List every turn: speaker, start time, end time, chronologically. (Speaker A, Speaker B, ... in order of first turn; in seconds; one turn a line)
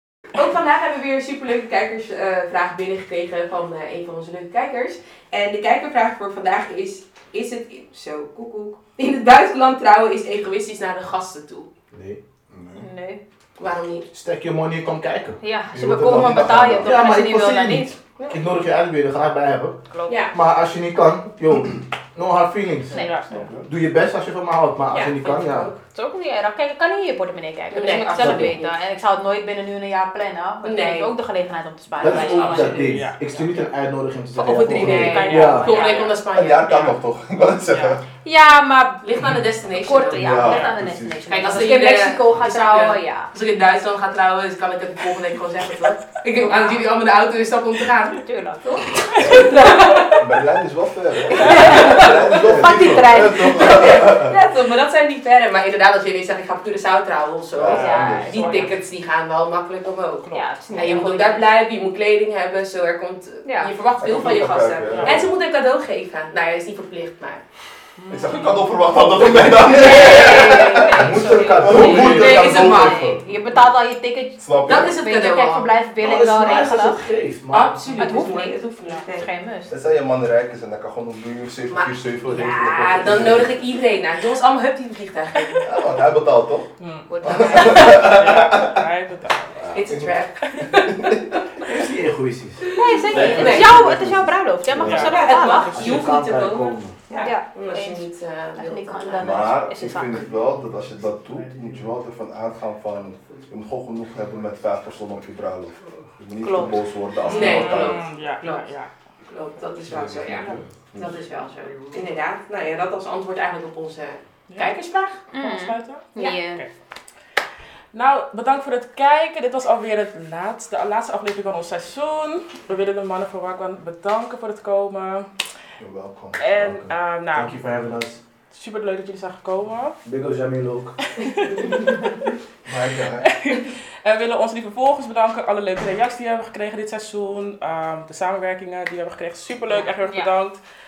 Speaker A: 0.3-11.7
Speaker B: 11.9-12.2
Speaker C: 12.5-12.9
Speaker D: 12.8-13.2
Speaker A: 13.6-14.1
Speaker B: 14.1-15.4
Speaker D: 15.4-17.9
Speaker C: 15.7-17.0
Speaker B: 16.8-19.8
Speaker D: 19.9-20.2
Speaker A: 20.1-20.3
Speaker B: 20.3-23.0
Speaker D: 22.9-23.3
Speaker E: 22.9-23.4
Speaker C: 23.3-23.7
Speaker B: 23.6-25.7
Speaker A: 24.9-25.8
Speaker D: 25.9-32.8
Speaker A: 27.7-28.8
Speaker B: 28.1-28.6
Speaker A: 30.6-31.1
Speaker B: 32.0-35.7
Speaker A: 32.0-33.0
Speaker E: 32.5-33.7
Speaker D: 34.4-36.1
Speaker A: 34.6-36.9
Speaker E: 34.8-36.2
Speaker C: 36.3-38.0
Speaker E: 36.7-36.9
Speaker E: 37.7-38.0
Speaker D: 38.2-39.1
Speaker A: 39.0-40.6
Speaker D: 39.7-43.3
Speaker C: 40.1-41.5
Speaker A: 41.3-50.2
Speaker D: 46.4-46.9
Speaker D: 48.1-50.0
Speaker C: 49.2-54.4
Speaker A: 51.4-52.6
Speaker D: 51.4-54.0
Speaker E: 51.5-51.9
Speaker A: 53.4-67.4
Speaker C: 57.5-58.6
Speaker E: 57.6-58.7
Speaker D: 57.6-58.7
Speaker D: 60.3-61.4
Speaker D: 63.4-63.7
Speaker C: 64.0-65.3
Speaker E: 64.9-65.2
Speaker E: 68.0-68.7
Speaker C: 68.1-73.2
Speaker A: 69.8-71.1
Speaker D: 69.8-77.0
Speaker B: 70.9-72.6
Speaker A: 71.7-73.1
Speaker C: 74.4-74.9
Speaker A: 74.6-75.7
Speaker B: 76.0-78.2
Speaker A: 77.5-79.2
Speaker D: 78.0-79.7
Speaker C: 79.7-83.6
Speaker A: 81.7-85.7
Speaker C: 85.6-86.7
Speaker E: 86.8-89.6
Speaker D: 87.1-88.0
Speaker C: 87.2-88.8
Speaker A: 89.7-91.7
Speaker E: 90.4-90.8
Speaker C: 90.9-91.2
Speaker B: 91.6-93.8
Speaker A: 92.7-93.7
Speaker D: 92.7-95.9
Speaker C: 93.1-95.1
Speaker E: 94.8-95.6
Speaker A: 94.9-99.5
Speaker B: 95.7-97.0
Speaker D: 97.2-100.3
Speaker C: 99.2-108.0
Speaker E: 101.3-101.7
Speaker D: 106.4-106.8
Speaker A: 107.2-108.7
Speaker E: 107.3-108.9
Speaker A: 109.3-115.2
Speaker C: 109.9-111.2
Speaker E: 114.5-114.8
Speaker D: 115.3-116.6
Speaker E: 115.3-116.7
Speaker E: 117.9-125.3
Speaker C: 125.8-126.4
Speaker E: 126.4-127.6
Speaker B: 127.3-128.2
Speaker E: 128.5-130.0
Speaker B: 130.0-130.9
Speaker E: 131.2-131.7
Speaker A: 131.5-132.0
Speaker C: 132.7-133.3
Speaker E: 133.2-140.6
Speaker D: 139.8-140.3